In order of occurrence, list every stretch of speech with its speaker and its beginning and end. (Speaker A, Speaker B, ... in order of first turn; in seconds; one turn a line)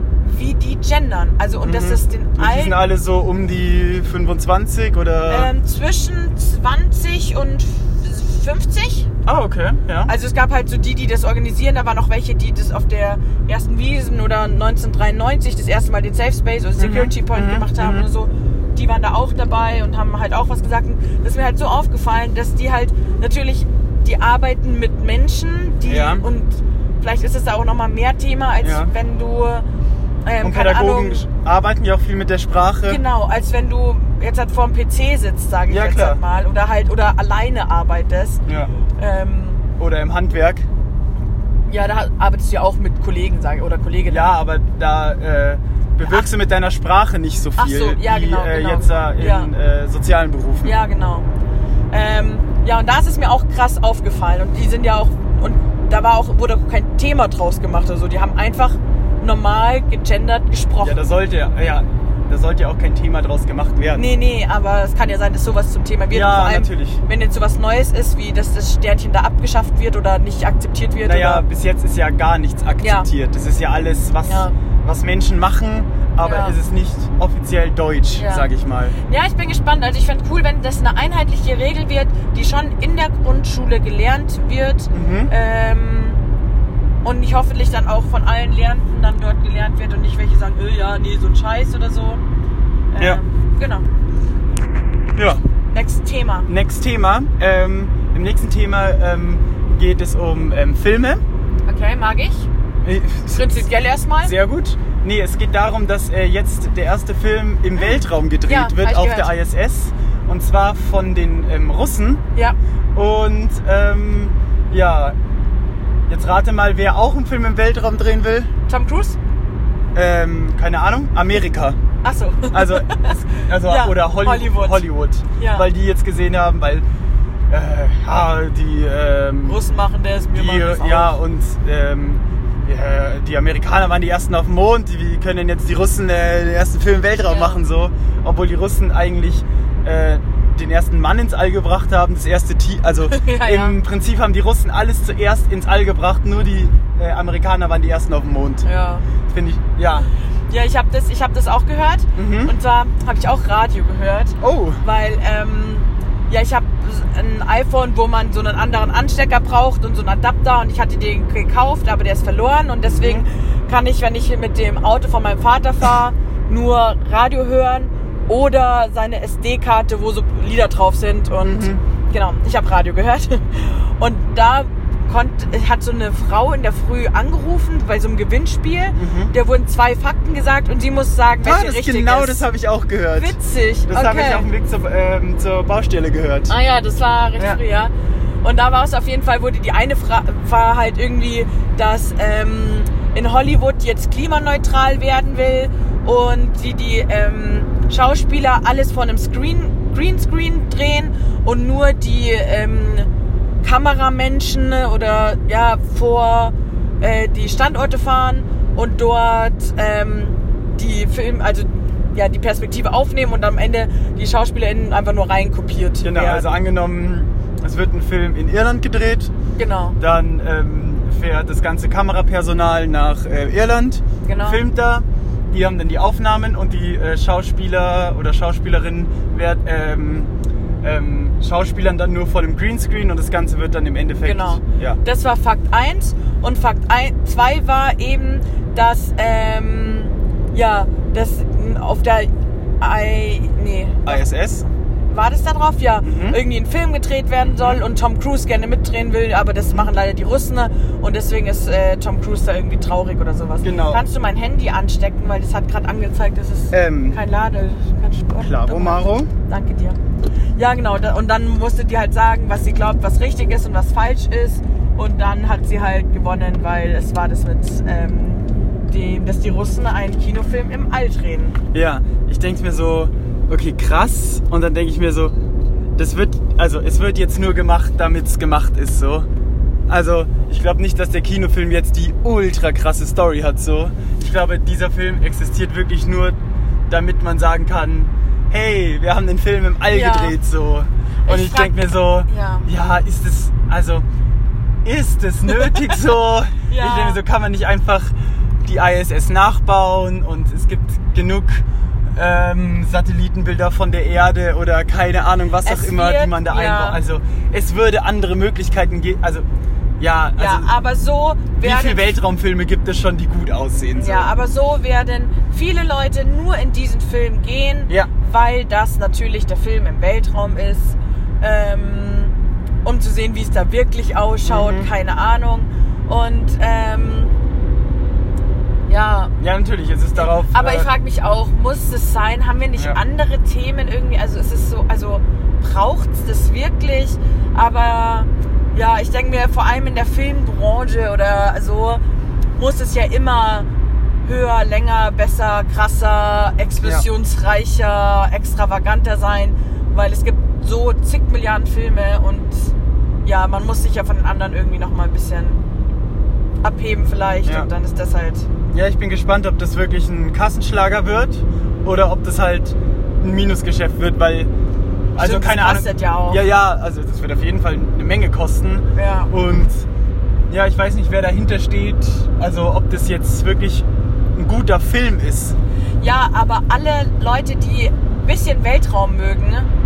Speaker A: 0.2-2.8
Speaker B: 1.6-5.5
Speaker A: 5.3-9.1
Speaker B: 9.3-10.1
Speaker A: 10.1-29.6
Speaker B: 16.8-18.1
Speaker B: 25.9-26.2
Speaker B: 28.6-28.9
Speaker A: 30.2-31.2
Speaker B: 30.4-33.0
Speaker A: 32.9-38.4
Speaker B: 35.7-36.2
Speaker B: 38.5-38.7
Speaker A: 39.0-39.6
Speaker B: 39.8-40.7
Speaker A: 41.7-44.4
Speaker B: 44.1-50.8
Speaker A: 46.0-46.3
Speaker A: 47.6-49.5
Speaker A: 50.6-51.3
Speaker A: 51.9-61.0
Speaker B: 60.8-64.0
Speaker A: 63.9-71.5
Speaker B: 66.1-67.0
Speaker B: 71.0-79.0
Speaker A: 72.8-73.1
Speaker A: 74.3-74.5
Speaker A: 76.2-76.6
Speaker A: 78.2-78.5
Speaker A: 79.0-86.2
Speaker B: 84.9-85.3
Speaker A: 87.0-92.2
Speaker A: 92.9-93.8
Speaker B: 95.2-95.4
Speaker A: 95.7-96.5
Speaker B: 96.5-101.2
Speaker A: 101.7-102.5
Speaker B: 102.8-103.7
Speaker A: 103.3-104.3
Speaker B: 104.2-112.2
Speaker A: 107.8-109.3
Speaker B: 113.0-115.2
Speaker B: 116.1-118.5
Speaker A: 118.7-119.2
Speaker B: 120.0-121.8
Speaker A: 122.0-124.9
Speaker B: 122.5-126.8
Speaker A: 125.4-125.7
Speaker B: 127.5-129.6
Speaker A: 129.4-131.2
Speaker B: 130.3-148.7
Speaker A: 137.2-137.6
Speaker A: 143.1-143.8
Speaker A: 148.6-149.1
Speaker B: 149.3-150.1
Speaker A: 150.5-182.4
Speaker B: 152.2-152.5
Speaker B: 154.4-154.8
Speaker B: 162.8-163.3
Speaker B: 171.4-171.8
Speaker B: 179.0-179.3
Speaker B: 181.4-183.4
Speaker A: 183.2-184.5
Speaker B: 183.9-186.5
Speaker A: 186.5-203.1
Speaker A: 203.6-216.5
Speaker B: 216.0-219.3
Speaker A: 219.6-220.0
Speaker B: 220.0-230.3
Speaker A: 224.2-224.6
Speaker B: 230.8-235.0
Speaker A: 234.2-244.2
Speaker B: 244.1-244.7
Speaker A: 245.1-260.0
Speaker B: 246.0-246.4
Speaker B: 247.4-247.8
Speaker B: 253.6-254.0
Speaker B: 256.7-257.2
Speaker B: 258.4-259.3
Speaker A: 260.6-271.6
Speaker B: 271.7-275.3
Speaker B: 276.0-279.3
Speaker B: 279.9-286.4
Speaker B: 286.9-294.1
Speaker A: 289.9-290.4
Speaker A: 291.3-292.7
Speaker B: 294.9-298.1
Speaker A: 295.5-296.0
Speaker A: 296.7-297.2
Speaker B: 298.6-301.6
Speaker B: 302.2-309.5
Speaker A: 305.6-307.0
Speaker B: 310.0-310.7
Speaker A: 310.4-312.1
Speaker B: 311.6-314.3
Speaker A: 313.9-327.3
Speaker B: 324.5-324.9
Speaker A: 328.9-329.3
Speaker B: 329.4-330.9
Speaker A: 330.1-342.0
Speaker A: 342.6-343.7
Speaker A: 344.2-352.7
Speaker A: 353.2-355.6
Speaker A: 356.6-358.5
Speaker B: 358.7-364.5
Speaker B: 365.1-369.9
Speaker A: 365.2-366.4
Speaker A: 368.9-369.3
Speaker B: 370.5-375.6
Speaker A: 376.0-379.7